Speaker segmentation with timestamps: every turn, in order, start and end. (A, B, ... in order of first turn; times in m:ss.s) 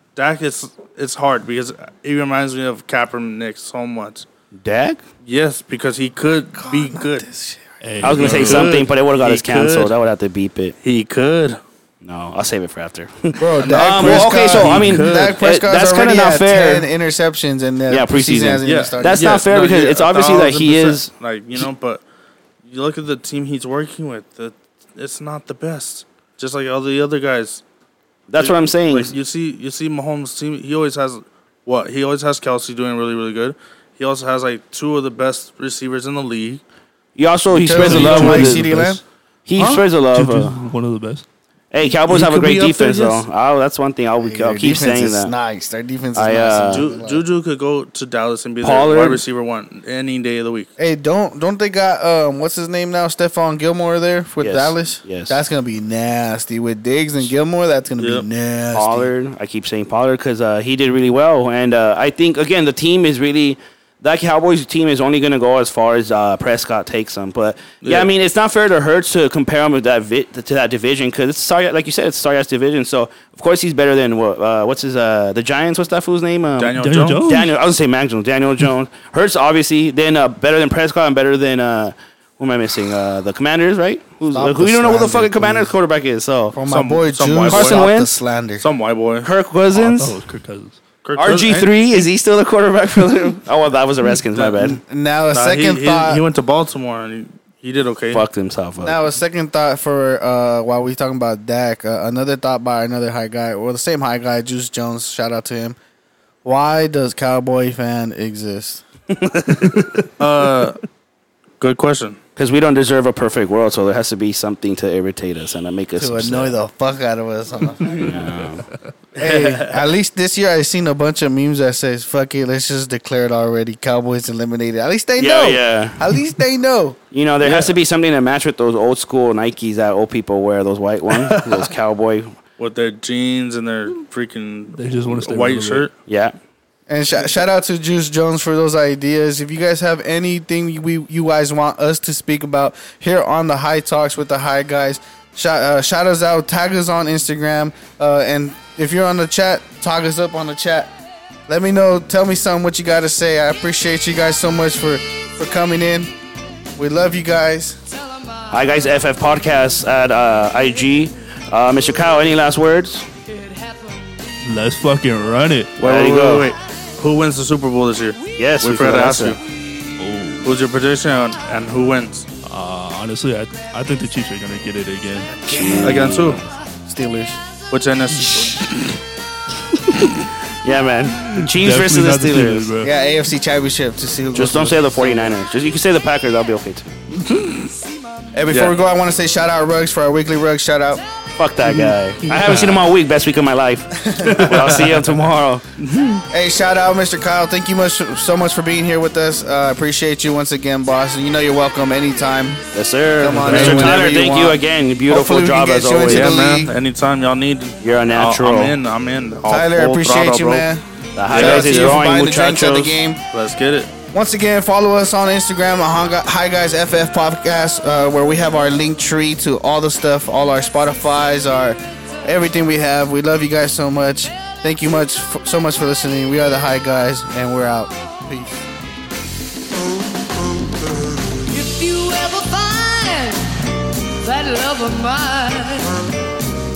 0:00.2-0:04.2 A
0:04.5-0:05.0 B
0:05.2-0:07.3 A
0:06.6-0:07.6 C
0:07.8-0:08.8 D
0:08.0-0:10.8 B
0:08.2-0:09.9 A
0:10.8-0:11.6 A
0:12.0-0:16.9 B
0:13.4-0:19.4 C
0:13.6-0:15.4 A
0:17.9-0:21.7 B
0:18.6-0:22.0 A
0:22.6-0:27.6 A
0:28.3-0:29.1 B
0:28.4-0:36.6 A
0:37.2-0:40.6 B
0:37.5-0:39.0 C
0:37.8-0:39.0 D
0:39.6-0:41.2 D
0:41.7-0:45.3 B
0:42.0-0:43.2 A
0:44.2-0:47.2 C
0:46.1-0:46.9 B
0:46.7-0:50.7 A
0:48.6-0:49.2 B
0:50.8-0:59.1 C
0:54.4-0:55.4 B
0:58.0-0:58.2 A
0:58.7-1:26.6 B
1:07.8-1:08.1 A
1:16.6-1:17.2 A
1:16.8-1:17.5 D
1:24.3-1:25.7 C
1:26.5-1:28.6 C
1:26.6-1:27.9 A
1:27.5-1:28.2 B
1:28.6-1:29.3 A
1:29.2-1:30.2 B
1:29.7-1:30.8 D
1:31.0-1:32.0 A
1:31.2-1:34.8 B
1:34.3-1:34.7 A
1:34.7-1:36.2 C
1:35.3-1:38.2 A
1:38.1-1:39.0 B
1:38.8-1:45.8 C
1:46.4-1:48.8 C
1:49.1-1:50.1 B
1:49.6-1:49.9 D
1:50.2-1:50.8 A
1:51.6-1:52.2 A
1:52.4-1:56.5 B
1:56.0-1:58.0 C
1:57.9-1:58.6 B
1:58.1-1:58.9 D
1:59.2-1:59.9 A
1:59.2-2:07.0 C
2:05.2-2:06.0 B
2:07.1-2:12.3 B
2:07.4-2:07.8 A
2:11.1-2:11.7 A
2:12.6-2:15.9 A
2:14.7-2:15.9 D
2:16.1-2:16.3 B
2:16.9-2:30.9 C
2:31.5-2:36.1 C
2:36.8-2:37.8 C
2:38.1-2:39.2 E
2:38.5-2:43.1 B
2:43.3-2:44.7 E
2:44.4-2:45.8 D
2:45.8-2:49.4 A
2:45.8-2:46.5 B
2:48.4-2:49.4 B
2:50.0-2:50.5 D
2:50.4-2:52.3 A
2:52.4-2:55.4 D
2:55.4-2:56.4 B
2:55.5-2:56.1 C
2:55.8-2:56.4 A
2:56.9-2:57.4 C
2:57.7-2:58.9 A
2:59.9-3:02.7 B
3:01.1-3:02.9 D
3:02.8-3:05.3 C
3:04.3-3:06.9 B
3:08.3-3:11.0 C
3:08.5-3:08.7 A
3:11.4-3:15.6 B
3:11.6-3:12.8 D
3:14.0-3:14.5 C
3:14.5-3:14.9 A
3:16.3-3:22.6 C
3:22.7-3:26.3 B
3:23.2-3:26.7 C
3:23.5-3:23.8 D
3:26.1-3:30.7 A
3:27.8-3:28.8 B
3:29.5-3:33.2 C
3:31.2-3:33.0 B
3:31.3-3:31.9 A
3:33.3-3:33.9 A
3:34.1-3:48.6 C
3:51.5-3:56.0 E